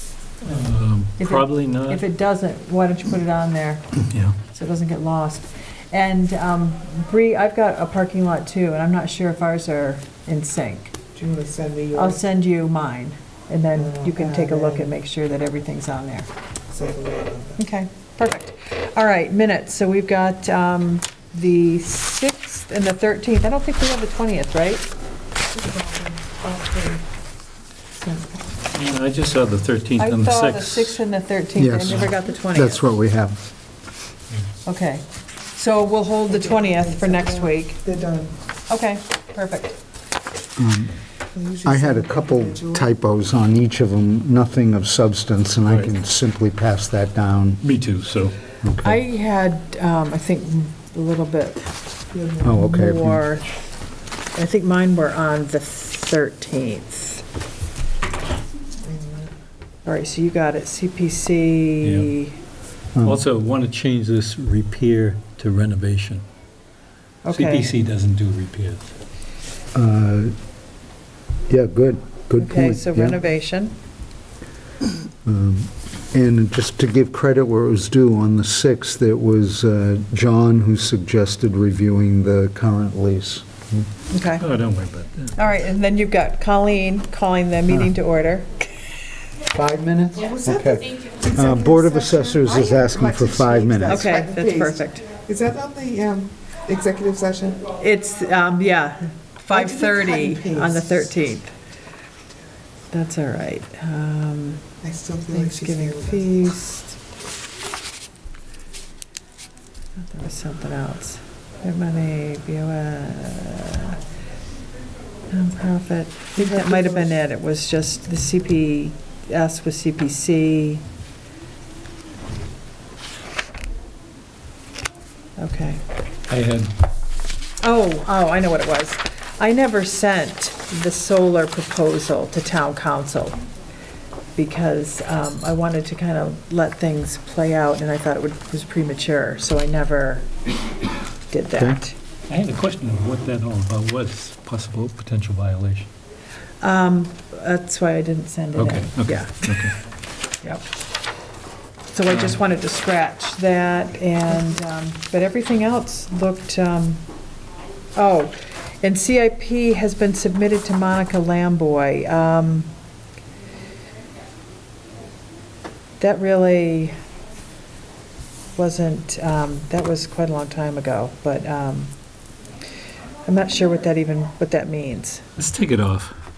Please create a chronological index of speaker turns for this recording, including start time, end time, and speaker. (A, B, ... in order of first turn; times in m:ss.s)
0:00.4-0:02.0 A
0:01.2-0:04.0 B
0:04.1-0:04.4 A
0:04.5-0:10.9 B
0:11.2-0:12.2 C
0:12.0-0:16.3 B
0:13.8-0:14.9 C
0:16.7-0:17.6 C
0:17.6-0:24.9 B
0:25.5-0:27.0 C
0:28.0-0:28.4 C
0:28.7-0:31.0 A
0:30.0-0:32.8 B
0:31.6-0:33.4 D
0:34.6-0:37.8 B
0:36.3-0:38.4 C
0:38.7-0:39.8 B
0:40.6-0:40.9 D
0:41.3-0:42.8 C
0:41.6-0:47.6 D
0:47.6-0:48.4 A
0:48.6-0:49.0 D
0:48.8-0:51.7 B
0:52.1-0:52.5 C
0:52.4-0:53.2 D
0:52.5-0:53.5 B
0:54.3-0:57.2 B
0:58.8-0:59.3 C
0:59.8-1:02.4 B
1:01.8-1:02.1 A
1:03.0-1:03.2 D
1:03.0-1:06.2 A
1:07.2-1:07.7 B
1:07.3-1:08.9 A
1:09.7-1:10.3 D
1:11.5-1:13.2 D
1:12.4-1:13.8 B
1:15.2-1:23.8 D
1:24.1-1:24.5 B
1:24.4-1:25.5 A
1:25.4-1:28.6 B
1:29.5-1:34.1 D
1:30.2-1:37.7 C
1:33.9-1:35.1 B
1:37.7-1:41.5 B
1:39.5-1:41.1 C
1:42.9-1:44.6 B
1:44.8-1:46.2 C
1:45.3-1:47.0 B
1:50.0-1:54.0 B
1:55.3-2:00.8 B
1:56.4-1:57.1 C
2:05.4-2:05.8 B
2:06.3-2:06.7 A
2:07.6-2:13.4 B
2:14.4-2:20.3 B
2:21.3-2:22.0 B
2:22.3-2:25.9 A
2:26.6-2:29.7 B
2:28.6-2:29.7 A
2:30.4-2:30.7 B
2:31.9-2:37.0 B
2:38.0-2:42.7 B
2:46.0-2:47.0 B
2:48.6-2:51.9 B
2:53.3-2:55.3 B
2:55.4-2:56.2 A